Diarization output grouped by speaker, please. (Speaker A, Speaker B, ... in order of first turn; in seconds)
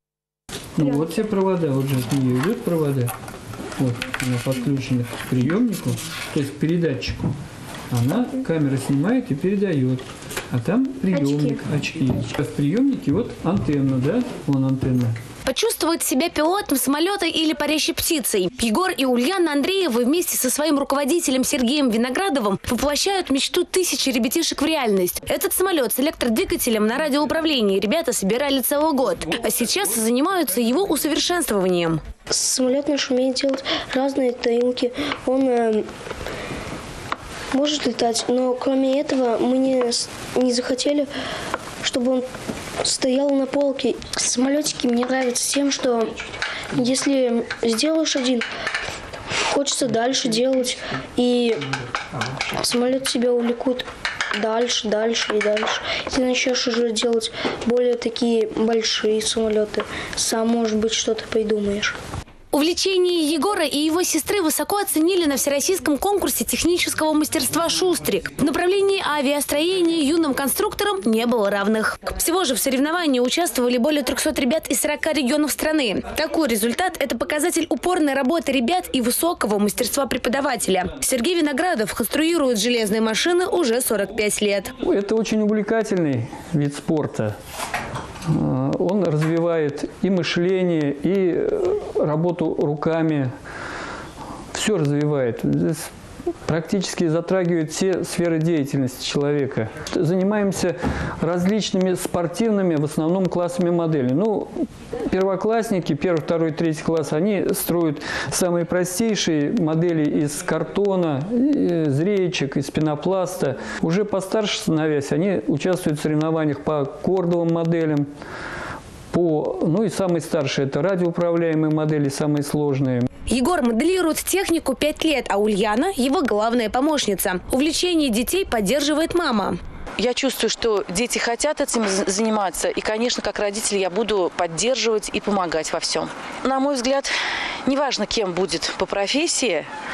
Speaker A: 0.8-3.1, 3.8-7.3, 7.9-15.2, 84.8-87.3, 88.3-93.3, 94.5-95.9, 96.5-118.1, 119.1-123.1
Speaker B: 15.4-32.0, 62.5-84.7, 123.3-129.6
Speaker C: 32.3-35.9, 37.5-41.1, 41.8-42.3, 42.8-46.1, 46.7-48.5, 49.5-51.7, 52.5-62.0
Speaker D: 130.0-137.1, 137.7-139.7